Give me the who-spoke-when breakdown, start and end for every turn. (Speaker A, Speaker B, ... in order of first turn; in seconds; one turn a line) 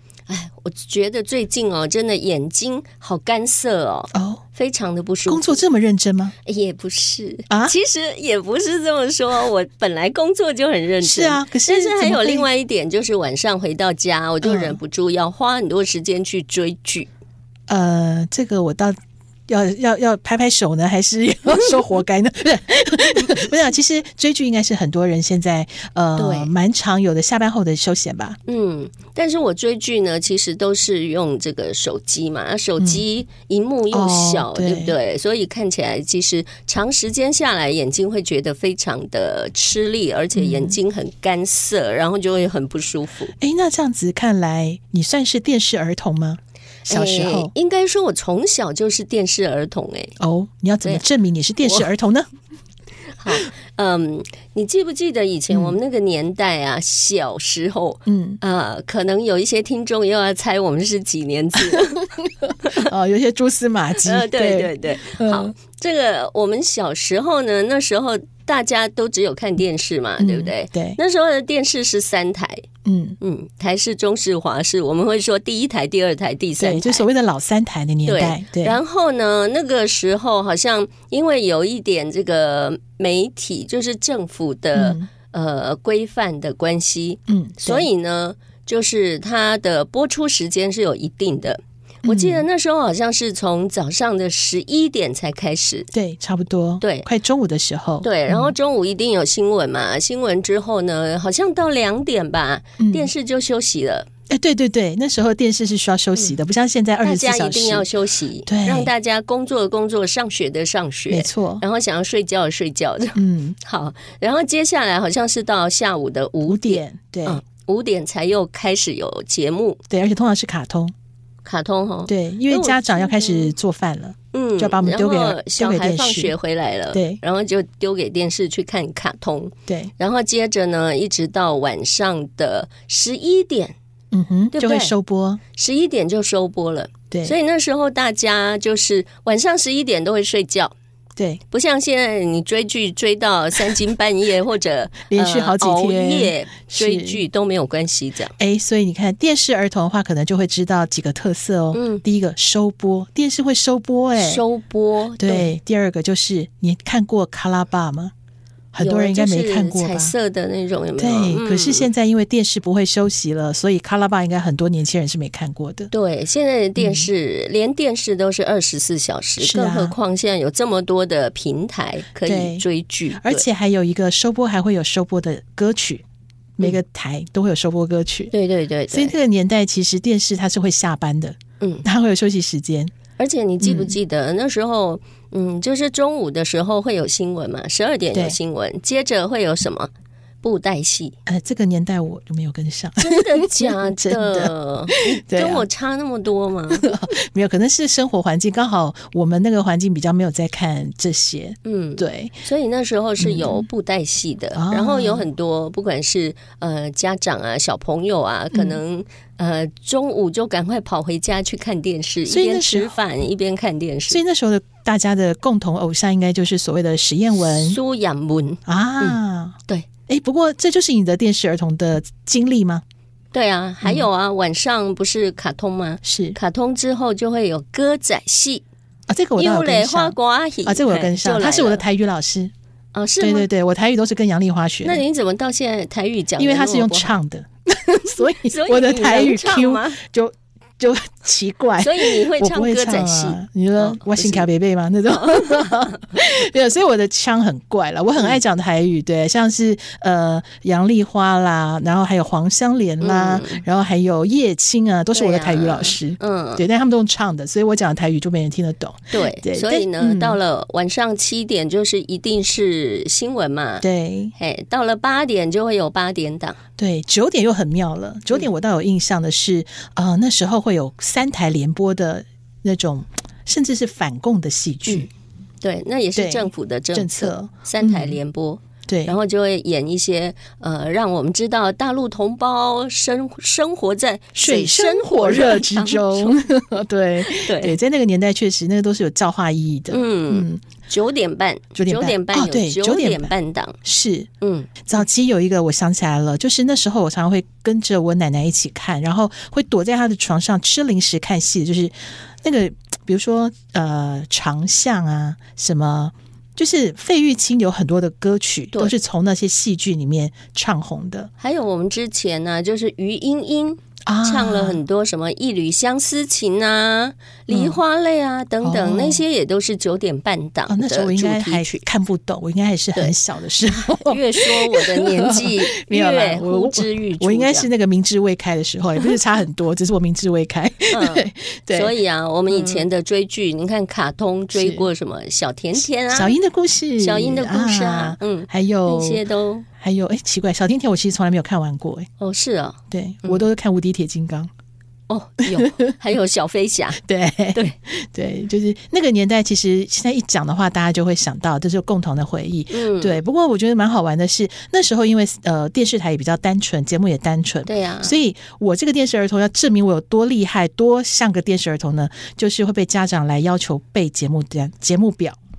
Speaker A: 0.3-5.6
Speaker B: 4.1-4.4
Speaker B: 5.3-6.3
Speaker A: 6.4-17.1
Speaker B: 7.5-7.8
Speaker B: 11.0-12.5
Speaker B: 14.4-14.8
Speaker B: 17.7-18.9
Speaker B: 19.5-28.4
Speaker A: 26.2-26.5
Speaker A: 28.4-43.3
Speaker B: 32.8-33.0
Speaker B: 33.9-35.0
Speaker B: 40.3-40.8
Speaker B: 43.4-47.5
Speaker A: 46.9-50.1
Speaker B: 50.2-52.3
Speaker A: 51.6-51.9
Speaker A: 53.1-62.9
Speaker B: 55.5-55.8
Speaker B: 58.1-58.4
Speaker B: 62.7-65.5
Speaker A: 64.0-72.6
Speaker B: 70.2-71.0
Speaker B: 72.8-73.2
Speaker A: 73.2-77.1
Speaker B: 76.6-78.8
Speaker A: 78.1-95.9
Speaker B: 84.7-85.1
Speaker B: 87.3-87.9
Speaker B: 92.0-92.5
Speaker B: 95.9-98.5
Speaker A: 96.8-97.1
Speaker A: 98.0-104.1
Speaker B: 102.8-103.1
Speaker B: 104.3-107.9
Speaker A: 107.0-119.8
Speaker B: 108.5-108.9
Speaker B: 111.1-111.6
Speaker B: 113.1-113.6
Speaker B: 116.5-117.4
Speaker B: 119.9-120.9
Speaker A: 121.4-123.5
Speaker B: 122.1-126.3
Speaker A: 124.3-133.8
Speaker B: 126.9-127.2
Speaker B: 134.1-135.4
Speaker A: 134.5-134.9
Speaker A: 135.5-140.8
Speaker B: 137.1-137.4
Speaker A: 141.5-148.3
Speaker B: 145.1-147.2
Speaker B: 148.4-154.4
Speaker A: 151.7-152.0
Speaker A: 154.2-155.5
Speaker B: 155.2-158.1
Speaker B: 158.7-160.2
Speaker A: 158.8-161.9
Speaker B: 161.0-165.9
Speaker A: 165.9-173.5
Speaker B: 166.8-167.1
Speaker B: 169.4-169.9
Speaker B: 172.2-176.0
Speaker B: 176.6-178.3
Speaker A: 178.3-179.1
Speaker B: 178.9-182.9
Speaker A: 181.6-181.9
Speaker A: 183.2-189.9
Speaker B: 183.6-184.0
Speaker B: 188.1-188.4
Speaker A: 190.4-191.2
Speaker B: 191.3-195.7
Speaker A: 193.0-196.9
Speaker B: 196.7-202.4
Speaker A: 201.6-214.2
Speaker B: 203.2-203.7
Speaker B: 204.5-205.3
Speaker B: 208.5-208.8
Speaker B: 212.2-213.0
Speaker B: 214.1-217.8
Speaker A: 217.4-219.9
Speaker B: 218.7-219.6
Speaker B: 220.1-222.8
Speaker A: 223.3-228.6
Speaker B: 223.8-224.1
Speaker B: 226.0-226.4
Speaker B: 229.1-232.5
Speaker A: 229.4-231.8
Speaker A: 232.9-233.5
Speaker B: 233.2-235.0
Speaker A: 234.8-237.1
Speaker B: 236.4-260.4
Speaker A: 238.3-240.0
Speaker A: 241.8-244.5
Speaker A: 245.1-246.1
Speaker A: 253.0-253.6
Speaker A: 255.1-256.7
Speaker A: 259.1-266.6
Speaker B: 263.8-264.3
Speaker B: 266.8-275.1
Speaker A: 275.6-286.4
Speaker B: 276.2-278.2
Speaker B: 278.9-279.2
Speaker B: 284.4-290.6
Speaker A: 287.2-287.8
Speaker A: 289.9-293.8
Speaker B: 291.8-294.3
Speaker A: 294.4-295.0
Speaker B: 294.9-311.3
Speaker A: 311.4-321.8
Speaker B: 314.1-314.8
Speaker B: 317.5-317.8
Speaker B: 318.6-319.2
Speaker B: 320.7-331.9
Speaker A: 323.7-327.7
Speaker A: 330.9-336.4
Speaker B: 332.5-332.9
Speaker B: 334.5-334.9
Speaker B: 335.8-339.2
Speaker A: 337.0-339.7
Speaker B: 339.8-342.1
Speaker A: 342.2-343.5
Speaker B: 342.9-344.5
Speaker A: 345.1-347.0
Speaker B: 345.4-345.9
Speaker B: 347.0-365.4
Speaker A: 352.7-353.2
Speaker A: 357.7-358.2